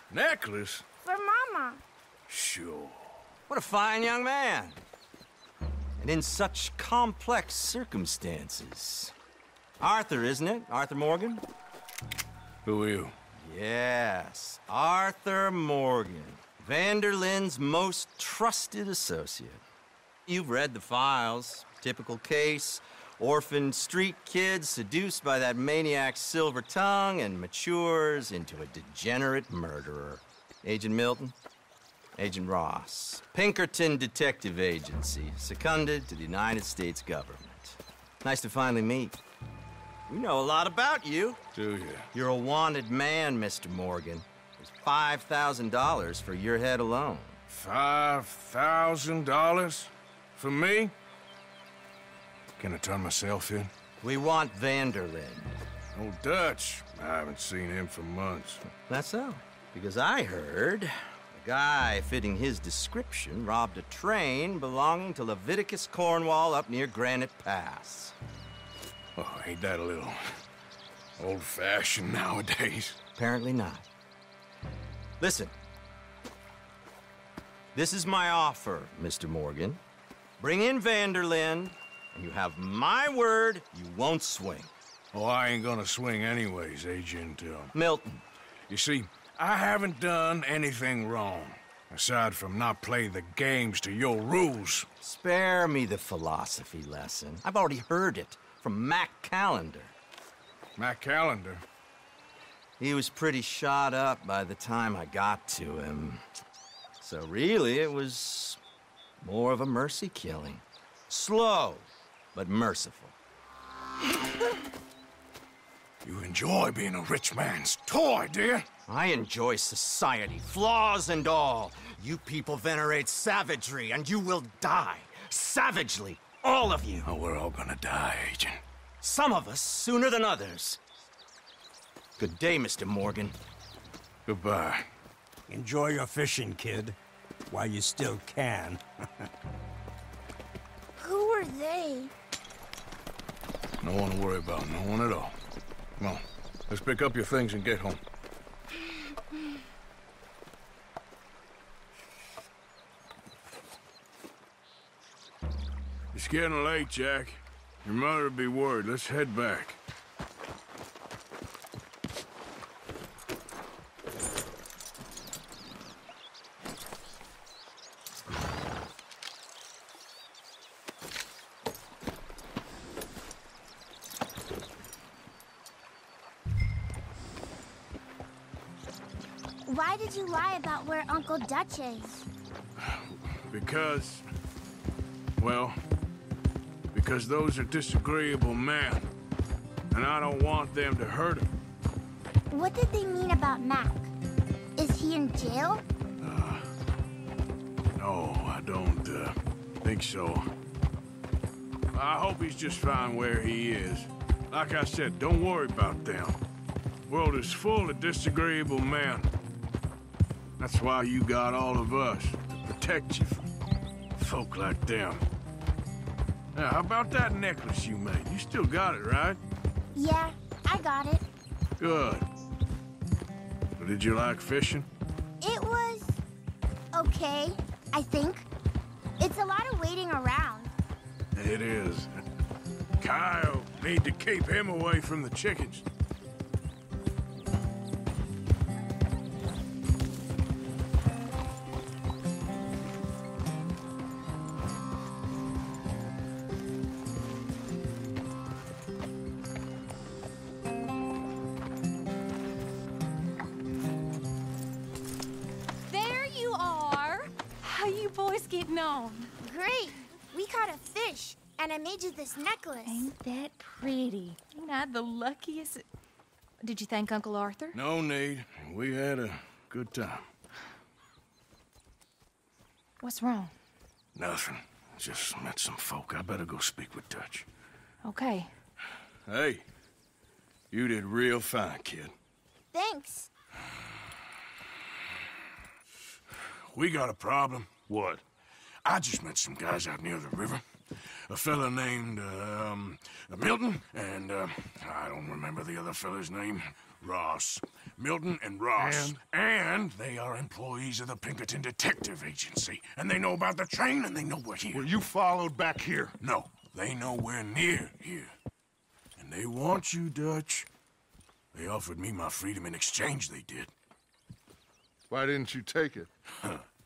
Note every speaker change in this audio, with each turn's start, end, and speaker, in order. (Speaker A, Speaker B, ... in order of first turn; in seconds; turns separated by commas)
Speaker A: 0.1-0.8, Speaker B: 1.0-1.8, Speaker A: 2.3-3.1, Speaker C: 3.5-4.8, Speaker C: 6.0-9.1, Speaker C: 9.8-11.4, Speaker A: 12.6-13.1, Speaker C: 13.4-19.6, Speaker C: 20.3-31.3, Speaker C: 32.1-39.1, Speaker C: 40.1-41.4, Speaker A: 41.5-42.1, Speaker C: 42.1-47.4, Speaker A: 47.5-50.9, Speaker A: 52.6-53.7, Speaker C: 54.0-55.6, Speaker A: 55.9-58.6, Speaker C: 58.7-68.1, Speaker A: 69.2-70.4, Speaker A: 71.2-73.0, Speaker C: 73.2-73.9, Speaker C: 75.2-75.5, Speaker C: 77.7-79.8, Speaker C: 80.4-84.7, Speaker A: 85.1-87.7, Speaker C: 87.7-88.2, Speaker A: 88.7-94.9, Speaker C: 95.0-99.9, Speaker A: 100.8-101.6, Speaker C: 102.8-106.2, Speaker C: 107.0-108.6, Speaker C: 109.2-113.1, Speaker A: 116.0-118.7, Speaker C: 118.9-126.8, Speaker D: 126.4-127.0, Speaker A: 127.0-128.6, Speaker C: 129.0-130.8, Speaker C: 132.2-133.3, Speaker A: 134.3-134.9, Speaker D: 135.5-137.0, Speaker D: 137.5-138.8, Speaker B: 141.0-142.1, Speaker A: 143.8-145.3, Speaker A: 146.0-148.0, Speaker A: 156.1-159.8, Speaker B: 179.7-182.2, Speaker A: 183.1-184.2, Speaker A: 185.4-185.8, Speaker A: 186.9-189.1, Speaker A: 189.9-191.5, Speaker B: 192.5-194.1, Speaker B: 194.8-195.8, Speaker A: 196.2-196.7, Speaker A: 198.0-200.5, Speaker A: 201.9-206.4, Speaker A: 207.1-209.3, Speaker A: 210.6-213.5, Speaker A: 214.2-215.2, Speaker A: 216.5-219.4, Speaker B: 219.9-221.2, Speaker A: 221.8-222.2, Speaker A: 223.8-224.9, Speaker B: 225.4-226.2, Speaker B: 226.9-228.5, Speaker B: 229.2-230.7, Speaker A: 231.3-232.1, Speaker A: 233.0-235.8, Speaker E: 255.9-259.3, Speaker B: 259.4-263.1, Speaker E: 262.8-265.8, Speaker E: 266.6-267.8, Speaker A: 267.7-270.2, Speaker E: 273.0-273.5, Speaker A: 274.1-277.5, Speaker E: 278.0-278.5, Speaker A: 279.2-279.6, Speaker A: 280.7-282.1, Speaker B: 282.7-283.3, Speaker A: 286.7-287.7, Speaker F: 287.9-288.2, Speaker A: 288.8-304.9, Speaker F: 298.8-299.2, Speaker F: 304.7-306.2, Speaker A: 306.2-308.3, Speaker A: 309.2-310.7, Speaker A: 311.5-313.7, Speaker F: 315.1-316.1